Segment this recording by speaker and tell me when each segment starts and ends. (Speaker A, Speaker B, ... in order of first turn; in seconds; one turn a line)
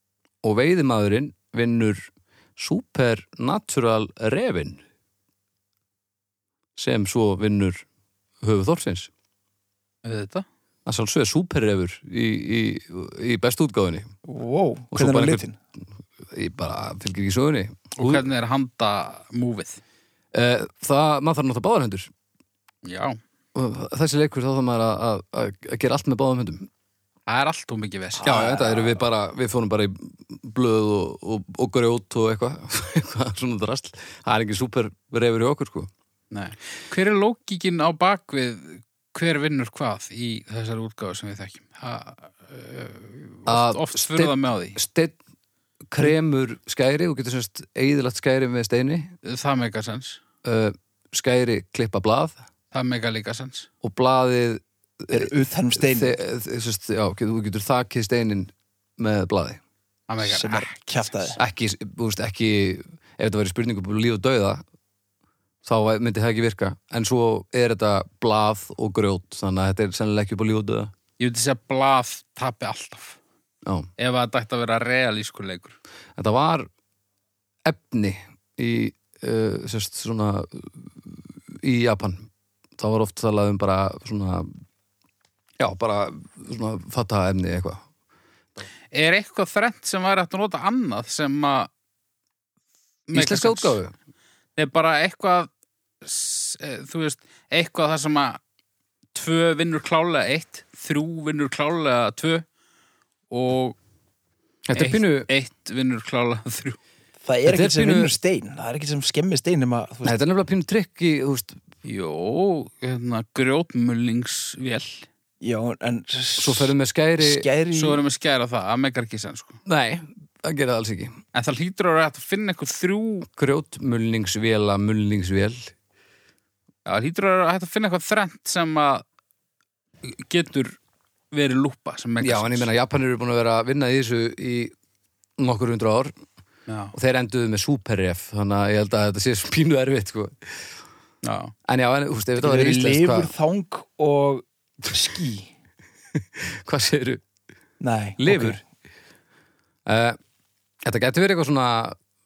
Speaker A: 0.4-4.8
Speaker A: 6.8-7.8
Speaker A: 8.4-9.1
Speaker B: 10.0-10.5
Speaker A: 10.9-14.1
Speaker C: 14.3-15.6
Speaker A: 14.9-15.4
Speaker A: 16.2-18.2
Speaker B: 18.0-19.8
Speaker A: 20.3-22.1
Speaker B: 22.9-23.2
Speaker A: 23.6-26.7
Speaker B: 27.3-28.4
Speaker A: 28.2-35.9
Speaker C: 28.2-29.0
Speaker B: 36.3-44.8
Speaker A: 43.5-45.2
Speaker A: 45.9-49.1
Speaker B: 49.2-50.2
Speaker A: 50.4-52.4
Speaker B: 52.7-53.7
Speaker A: 53.8-59.6
Speaker C: 55.1-56.2
Speaker B: 60.1-61.4
Speaker C: 60.2-61.4
Speaker A: 61.4-64.6
Speaker A: 65.6-70.9
Speaker B: 71.2-73.2
Speaker A: 73.7-73.9
Speaker B: 74.0-75.8
Speaker A: 76.2-76.7
Speaker A: 77.7-84.5
Speaker A: 85.6-87.8
Speaker B: 88.9-91.7
Speaker B: 93.1-93.8
Speaker A: 93.1-93.9
Speaker B: 94.6-95.5
Speaker B: 96.0-98.4
Speaker B: 99.1-102.4
Speaker B: 103.3-103.8
Speaker A: 104.7-105.3
Speaker B: 104.7-106.8
Speaker C: 107.2-110.2
Speaker A: 107.5-108.1
Speaker A: 110.0-111.6
Speaker B: 111.8-115.1
Speaker C: 115.4-118.0
Speaker A: 116.4-117.5
Speaker B: 117.7-119.6
Speaker A: 119.7-121.2
Speaker B: 121.3-123.3
Speaker A: 123.3-125.7
Speaker B: 126.9-129.0
Speaker B: 130.0-130.8
Speaker B: 131.3-132.7
Speaker A: 132.2-134.7
Speaker A: 135.4-136.1
Speaker B: 136.7-136.9
Speaker A: 136.9-140.4
Speaker B: 141.2-141.5
Speaker A: 141.7-143.3
Speaker C: 142.4-145.5
Speaker A: 146.2-147.2
Speaker C: 147.8-148.6
Speaker A: 148.2-148.6
Speaker A: 149.9-150.2
Speaker A: 150.8-152.0